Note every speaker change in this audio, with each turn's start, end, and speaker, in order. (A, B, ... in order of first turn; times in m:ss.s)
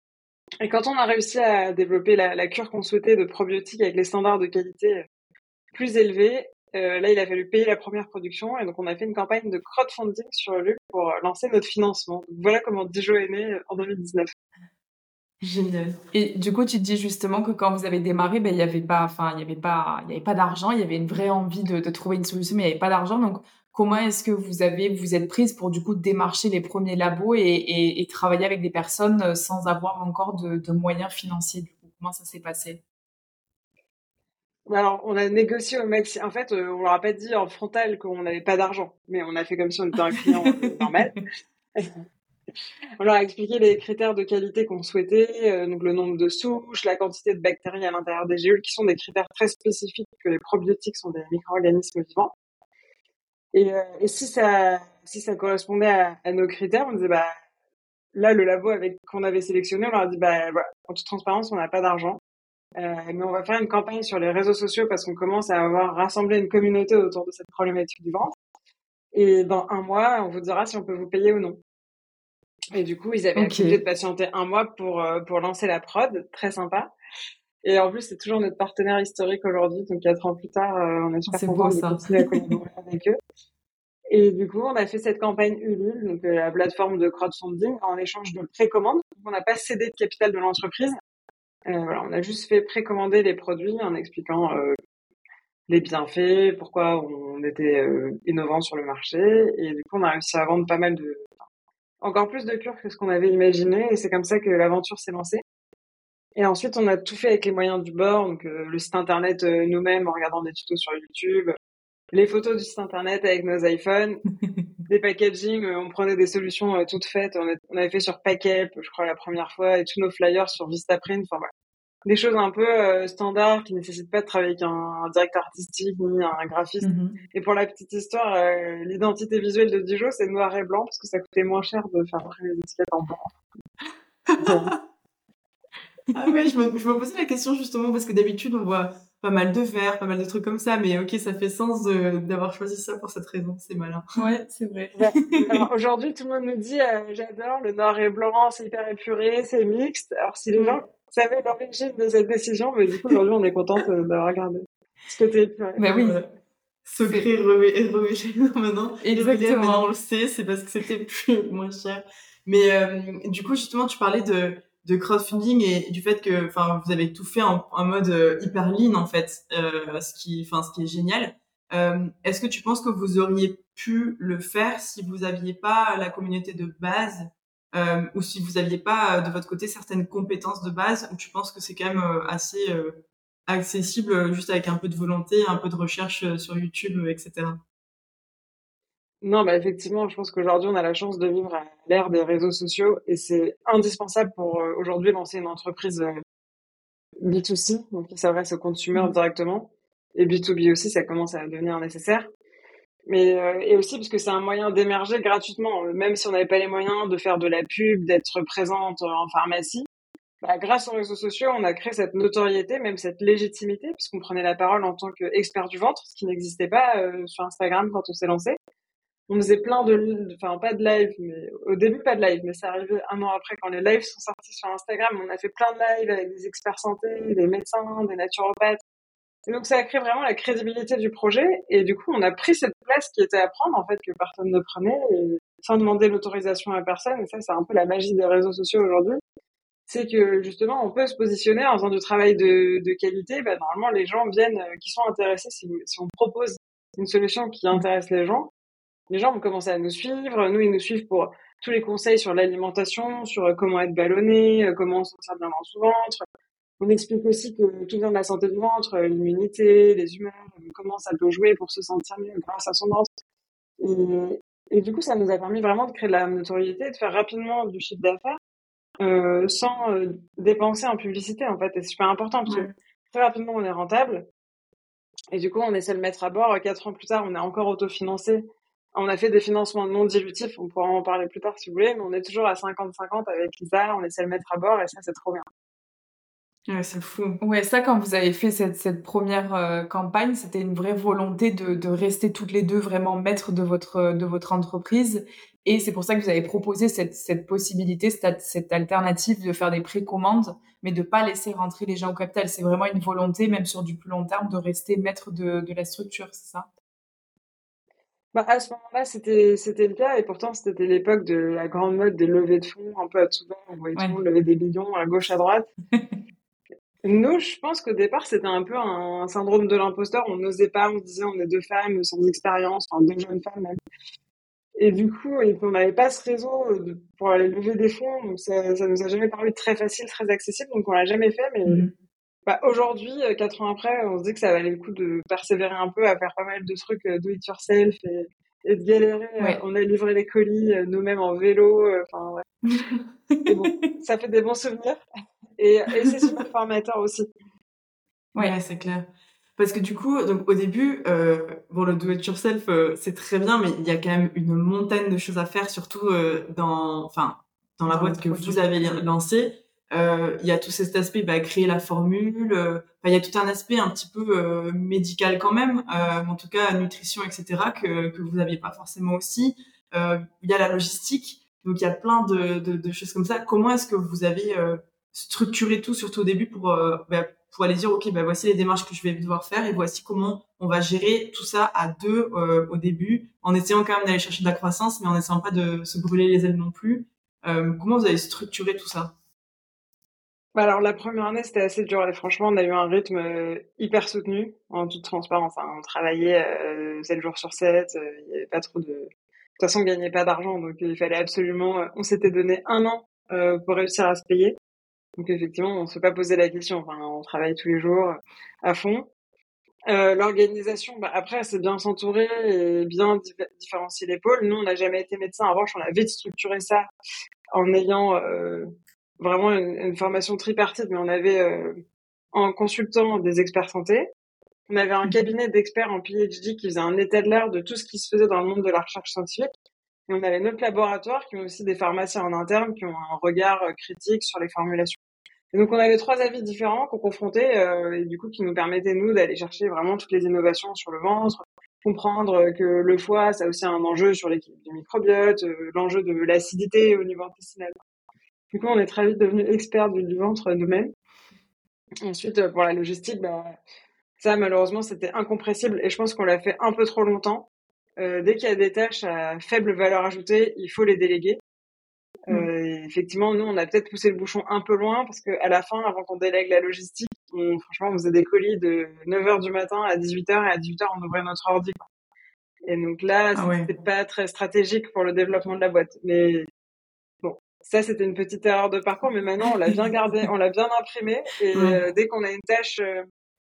0:00.6-0:05.0 A
0:05.7-0:14.3 A
0:15.4-0:16.0 B
0:16.1-0:32.8 C
0:34.7-0:41.2 A
0:43.0-0:52.3 A
0:53.5-0:57.3 A
0:58.1-1:02.2 A
1:02.8-1:08.3 A
1:09.1-1:11.6 A
1:12.7-1:16.9 A
1:13.4-1:13.8 C
1:17.6-1:23.2 A
1:21.3-1:22.5 C
1:24.1-1:31.0 A
1:31.7-1:34.8 A
1:35.7-1:41.4 A
1:42.0-1:45.4 A
1:46.4-1:51.5 A
1:52.1-1:54.2 A
1:54.9-2:01.5 A
2:02.0-2:13.3 A
2:06.8-2:07.2 C
2:14.3-2:14.7 B
2:14.4-2:14.7 A
2:16.1-2:24.2 B
2:24.2-2:25.2 C
2:25.0-2:36.1 A
2:35.8-2:36.2 C
2:36.8-3:07.6 B
2:39.0-2:39.9 C
3:09.2-3:16.2 A
3:17.2-3:22.3 A
3:23.1-3:29.9 A
3:30.4-3:38.6 A
3:39.3-3:48.8 A
3:49.5-3:59.2 A
3:59.9-4:08.5 A
4:09.1-4:16.2 A
4:16.8-4:23.1 A
4:23.8-4:28.4 A
4:29.0-4:34.3 A
4:32.5-4:32.7 B
4:35.3-4:45.5 A
4:46.7-4:47.4 B
4:47.4-5:06.7 C
5:08.3-5:15.7 A
5:17.0-5:23.8 A
5:24.8-5:31.8 A
5:31.7-5:31.9 C
5:32.5-5:42.5 A
5:43.3-5:43.9 C
5:43.5-5:45.0 A
5:45.6-5:47.3 A
5:48.4-6:29.1 B
5:57.9-5:58.7 C
6:30.6-6:44.6 A
6:45.2-6:49.1 A
6:49.9-6:56.9 A
6:57.5-6:58.7 A
6:59.2-7:01.8 A
7:02.3-7:04.1 A
7:04.7-7:09.5 A
7:10.1-7:15.0 A
7:15.5-7:27.8 A
7:28.5-7:30.9 A
7:32.0-7:33.6 A
7:34.2-7:41.4 A
7:42.3-7:51.9 A
7:52.7-7:56.5 A
7:53.4-7:53.7 B
7:57.2-8:03.1 A
8:01.5-8:01.8 B